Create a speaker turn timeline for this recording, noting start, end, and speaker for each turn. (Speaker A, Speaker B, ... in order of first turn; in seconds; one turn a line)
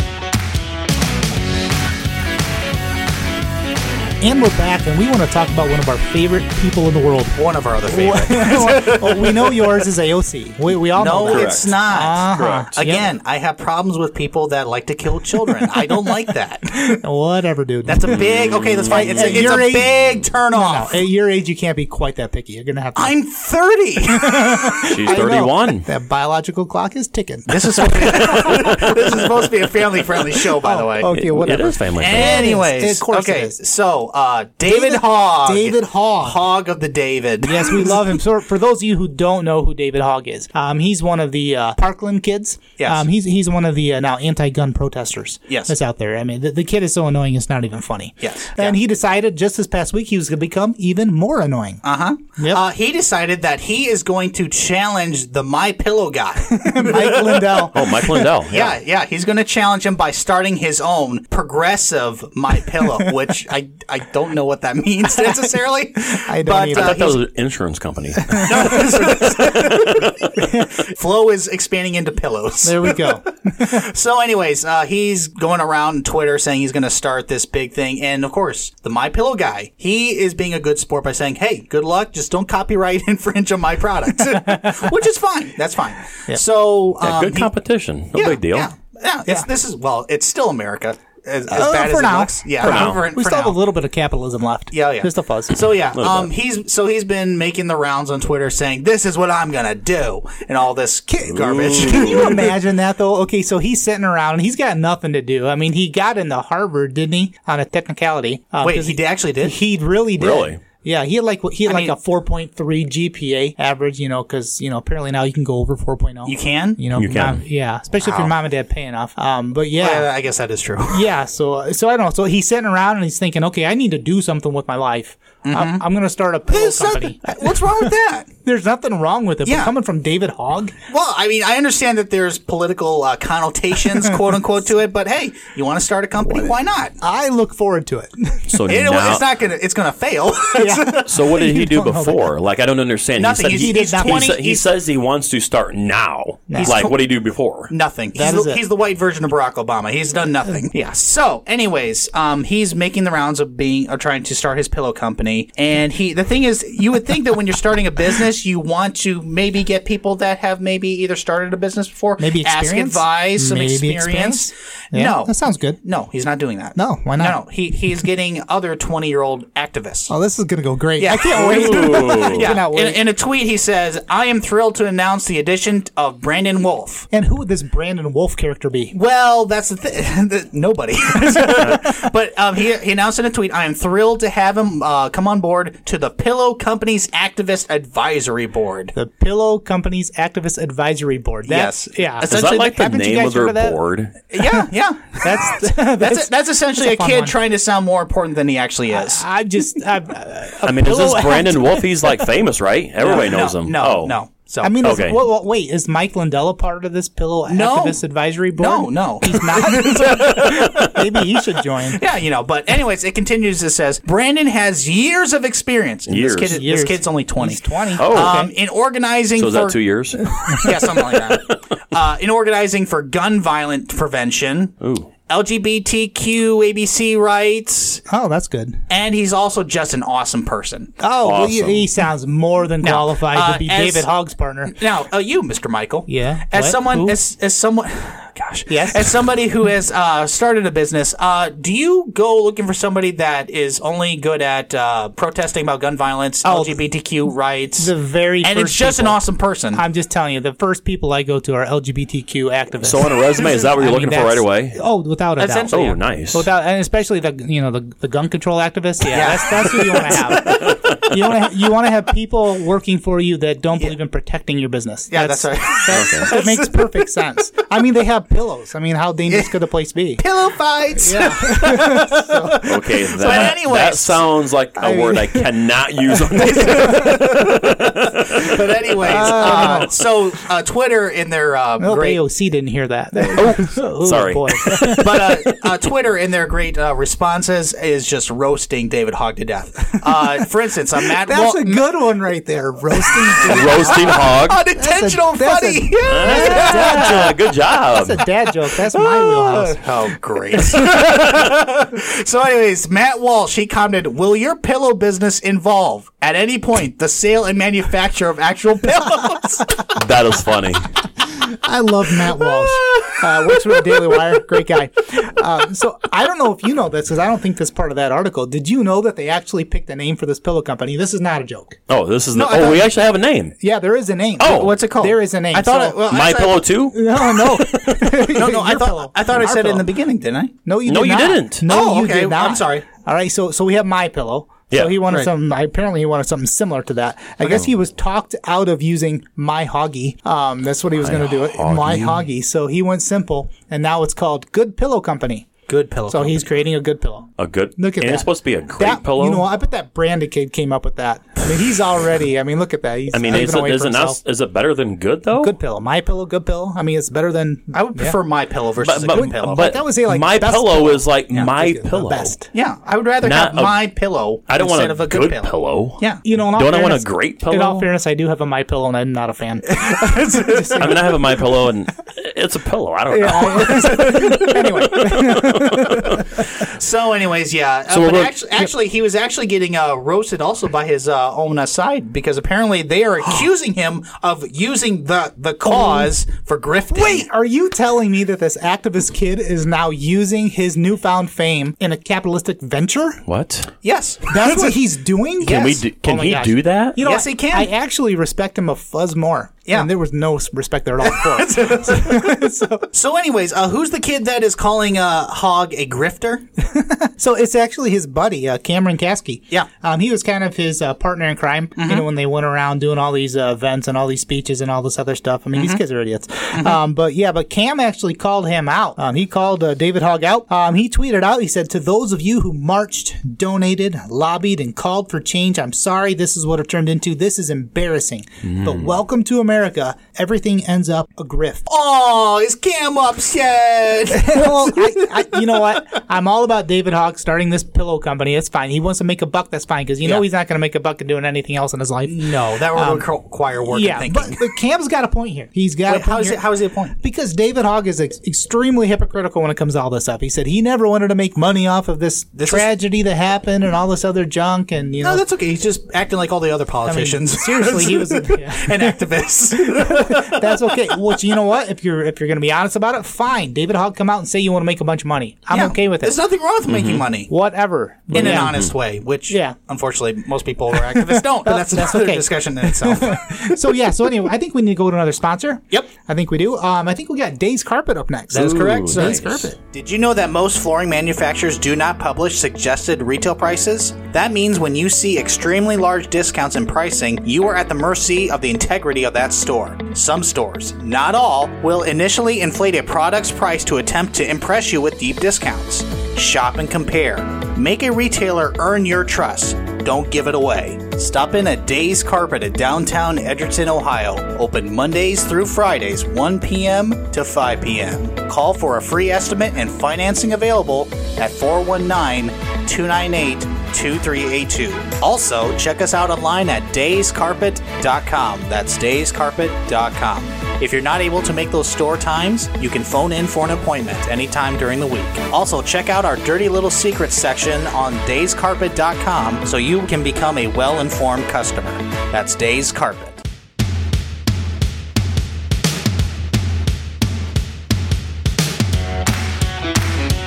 Speaker A: 4.2-13.1
Speaker B: 7.4-9.7
Speaker B: 10.9-17.0
Speaker C: 11.1-12.7
Speaker A: 15.5-16.2
Speaker A: 16.8-18.2
Speaker B: 17.9-21.1
Speaker C: 18.1-19.6
Speaker A: 18.9-19.9
Speaker A: 20.5-23.2
Speaker B: 23.0-24.7
Speaker A: 24.1-29.0
Speaker C: 24.8-25.9
Speaker B: 27.5-31.2
Speaker C: 28.4-28.8
Speaker A: 30.6-33.6
Speaker C: 31.1-32.5
Speaker B: 32.0-38.1
Speaker A: 34.6-36.4
Speaker A: 37.4-52.6
Speaker B: 42.8-43.1
Speaker B: 45.5-45.7
Speaker B: 48.2-48.8
Speaker B: 51.8-57.7
Speaker A: 56.5-58.3
Speaker C: 57.7-58.7
Speaker B: 58.5-67.2
Speaker A: 65.2-65.4
Speaker A: 66.1-67.2
Speaker C: 66.7-70.4
Speaker A: 68.2-68.8
Speaker B: 68.4-87.5
Speaker A: 70.4-70.7
Speaker A: 72.6-73.8
Speaker A: 84.3-84.9
Speaker C: 87.0-88.7
Speaker B: 88.1-93.6
Speaker A: 91.5-95.6
Speaker C: 92.6-93.0
Speaker B: 94.7-102.5
Speaker C: 96.0-96.3
Speaker C: 101.3-102.3
Speaker A: 101.6-120.1
Speaker B: 108.6-109.6
Speaker C: 110.2-110.6
Speaker B: 111.7-112.0
Speaker B: 116.3-116.8
Speaker C: 117.0-117.4
Speaker B: 119.8-121.1
Speaker A: 120.9-127.9
Speaker B: 125.4-125.8
Speaker B: 126.5-128.3
Speaker A: 128.4-130.8
Speaker B: 129.4-129.7
Speaker B: 130.9-137.0
Speaker A: 133.9-134.4
Speaker A: 136.3-138.7
Speaker C: 138.5-139.2
Speaker B: 138.7-141.1
Speaker A: 140.5-142.3
Speaker C: 141.1-147.7
Speaker B: 143.2-144.7
Speaker A: 143.5-144.4
Speaker A: 146.5-146.9
Speaker B: 146.6-147.1
Speaker B: 147.7-170.1
Speaker A: 148.2-148.6
Speaker A: 162.2-165.8
Speaker A: 166.8-167.4
Speaker A: 170.1-173.0
Speaker B: 171.0-177.1
Speaker C: 171.3-172.6
Speaker A: 177.1-178.9
Speaker B: 178.9-188.9
Speaker A: 181.3-182.0
Speaker A: 188.9-193.8
Speaker B: 191.5-192.8
Speaker C: 192.3-194.2
Speaker B: 194.3-199.2
Speaker A: 194.4-194.7
Speaker A: 195.2-197.4
Speaker A: 198.9-202.3
Speaker C: 200.7-204.2
Speaker B: 203.0-204.8
Speaker A: 204.6-212.0
Speaker C: 204.8-205.2
Speaker B: 207.5-208.0
Speaker B: 208.6-211.0
Speaker C: 210.1-210.7
Speaker B: 211.8-219.8
Speaker C: 216.1-216.6
Speaker A: 216.4-218.5
Speaker C: 218.0-218.5
Speaker C: 219.4-221.0
Speaker A: 220.4-220.7
Speaker B: 220.4-224.8
Speaker C: 224.8-225.1
Speaker B: 225.3-228.0
Speaker A: 228.1-228.8
Speaker B: 228.9-231.0
Speaker A: 231.0-234.8
Speaker C: 231.2-231.9
Speaker B: 232.8-234.1
Speaker B: 234.7-249.8
Speaker A: 236.1-237.2
Speaker A: 238.7-239.2
Speaker A: 246.4-246.8
Speaker A: 247.8-249.2
Speaker A: 249.7-270.3
Speaker C: 252.8-254.8
Speaker B: 255.4-256.0
Speaker C: 255.7-256.5
Speaker B: 259.1-260.8
Speaker C: 260.6-260.9
Speaker B: 265.1-267.1
Speaker C: 265.9-266.3
Speaker B: 269.3-269.6
Speaker B: 270.2-274.3
Speaker A: 271.0-272.6
Speaker C: 272.6-278.6
Speaker A: 274.8-275.6
Speaker A: 276.1-277.3
Speaker B: 276.4-282.2
Speaker A: 279.0-280.0
Speaker C: 279.2-279.8
Speaker A: 281.8-285.4
Speaker C: 283.3-285.3
Speaker B: 285.0-291.8
Speaker A: 290.1-290.4
Speaker A: 291.1-299.9
Speaker B: 293.0-297.3
Speaker C: 293.4-294.6
Speaker C: 296.1-298.2
Speaker B: 298.7-309.9
Speaker A: 300.5-300.9
Speaker C: 309.9-310.9
Speaker A: 311.2-321.8
Speaker C: 321.9-323.6
Speaker B: 322.3-323.0
Speaker A: 323.6-326.1
Speaker C: 324.4-324.8
Speaker B: 324.4-326.8
Speaker C: 326.1-327.9
Speaker A: 326.9-329.9
Speaker B: 328.2-330.5
Speaker A: 330.6-345.5
Speaker C: 330.9-331.6
Speaker B: 331.6-332.9
Speaker C: 334.7-335.0
Speaker C: 341.0-342.2
Speaker B: 345.7-346.4
Speaker A: 346.1-354.2
Speaker C: 347.4-349.5
Speaker C: 353.1-355.5
Speaker A: 355.4-358.2
Speaker B: 357.7-359.8
Speaker C: 358.8-362.3
Speaker A: 359.1-362.5
Speaker B: 362.5-366.2
Speaker C: 363.2-363.9
Speaker C: 364.5-367.9
Speaker A: 366.2-371.4
Speaker B: 369.8-371.0
Speaker C: 370.8-376.2
Speaker A: 373.1-376.4
Speaker B: 373.6-374.6
Speaker B: 376.5-387.3
Speaker C: 377.9-378.4
Speaker A: 385.6-386.1
Speaker A: 386.9-393.2
Speaker C: 393.3-393.7
Speaker B: 393.8-394.8
Speaker A: 394.3-402.9
Speaker C: 395.4-397.0
Speaker B: 395.4-395.8
Speaker B: 397.0-397.7
Speaker B: 401.0-402.4
Speaker B: 402.9-406.5
Speaker A: 406.6-431.6
Speaker B: 411.8-412.1
Speaker B: 415.5-415.8
Speaker B: 431.7-435.3
Speaker A: 434.1-443.1
Speaker B: 442.1-444.5
Speaker A: 443.6-455.2
Speaker B: 445.9-447.0
Speaker B: 452.4-452.7
Speaker B: 455.0-460.7
Speaker A: 456.9-466.2
Speaker B: 465.5-467.3
Speaker C: 466.7-467.1
Speaker A: 467.3-468.6
Speaker B: 468.1-473.4
Speaker C: 468.1-468.7
Speaker A: 469.3-469.6
Speaker A: 470.8-479.6
Speaker B: 478.3-533.2
Speaker C: 478.4-479.3